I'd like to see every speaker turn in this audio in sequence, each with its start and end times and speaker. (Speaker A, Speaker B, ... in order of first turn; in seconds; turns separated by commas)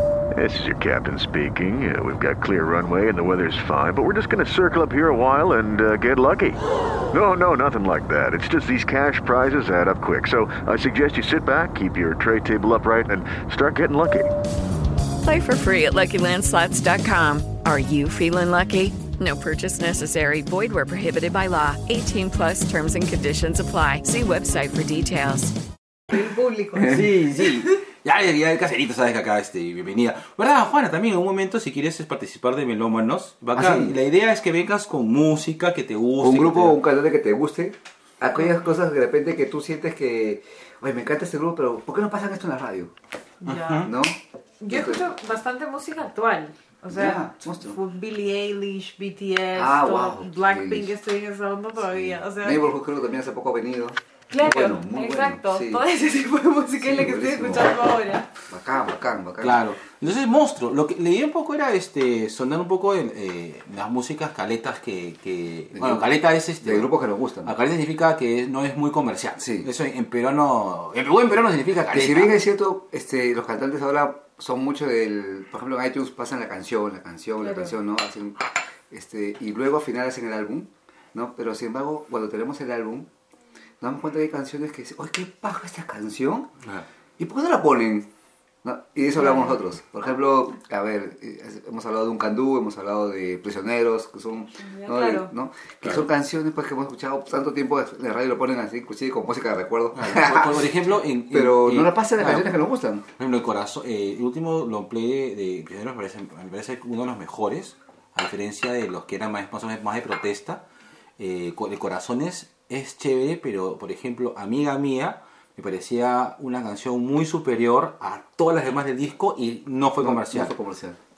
Speaker A: 0.3-14.3, Speaker B: 15.2-25.5, Speaker C: 26.1-27.0, Speaker D: 26.8-36.8, Speaker E: 33.5-34.0, Speaker E: 36.2-42.9, Speaker C: 43.4-43.9, Speaker D: 43.4-43.9, Speaker E: 43.8-44.2, Speaker C: 44.6-52.6, Speaker E: 44.7-45.1, Speaker E: 46.9-47.8, Speaker E: 49.5-51.0, Speaker E: 51.8-55.8, Speaker C: 54.3-58.3, Speaker E: 56.8-57.9, Speaker E: 58.5-59.6, Speaker D: 59.4-66.9, Speaker E: 65.7-66.1, Speaker E: 66.6-67.5, Speaker D: 67.4-72.4, Speaker E: 69.4-69.7, Speaker E: 71.9-83.1, Speaker C: 77.4-77.7, Speaker E: 83.8-86.5, Speaker E: 87.2-88.1, Speaker E: 88.6-100.7, Speaker C: 89.2-89.6, Speaker C: 94.6-95.3, Speaker D: 99.9-102.5, Speaker E: 101.3-103.0, Speaker D: 103.2-110.6, Speaker D: 111.2-120.5, Speaker E: 120.0-121.0